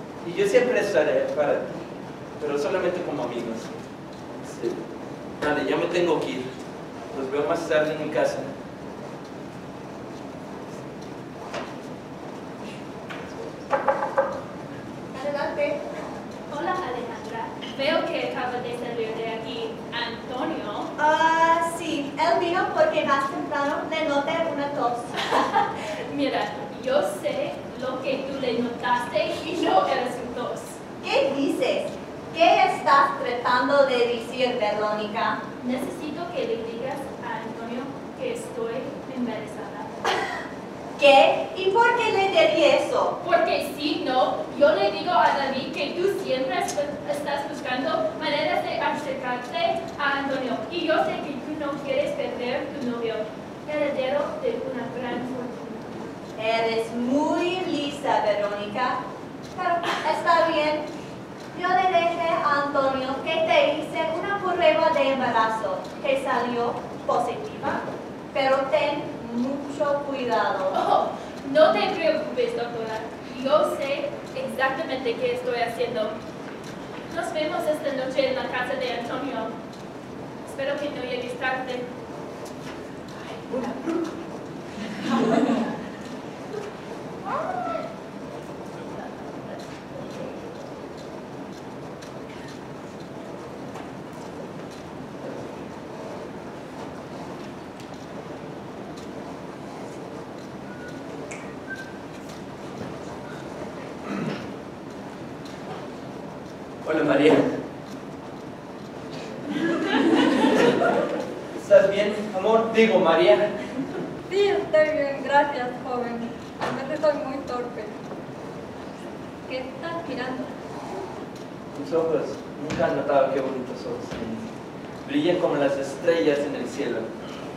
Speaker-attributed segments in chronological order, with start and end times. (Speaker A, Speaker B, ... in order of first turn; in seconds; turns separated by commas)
Speaker A: 0.2-3.7, Speaker A: 4.4-4.8, Speaker A: 5.4-6.5, Speaker A: 7.1-8.5, Speaker B: 15.1-15.8, Speaker C: 16.5-20.9, Speaker B: 21.0-25.2, Speaker C: 25.2-30.8, Speaker B: 31.0-35.4, Speaker C: 35.6-39.9, Speaker B: 41.0-43.2, Speaker C: 43.2-56.0, Speaker B: 56.4-59.0, Speaker B: 59.5-60.9, Speaker B: 61.5-70.8, Speaker C: 70.7-76.2, Speaker C: 77.1-79.5, Speaker C: 80.5-81.9, Speaker A: 83.4-84.1, Speaker A: 85.0-85.5, Speaker A: 106.8-107.5, Speaker A: 111.6-113.5, Speaker D: 114.3-118.0, Speaker D: 119.4-120.5, Speaker A: 121.7-124.5, Speaker A: 125.0-127.1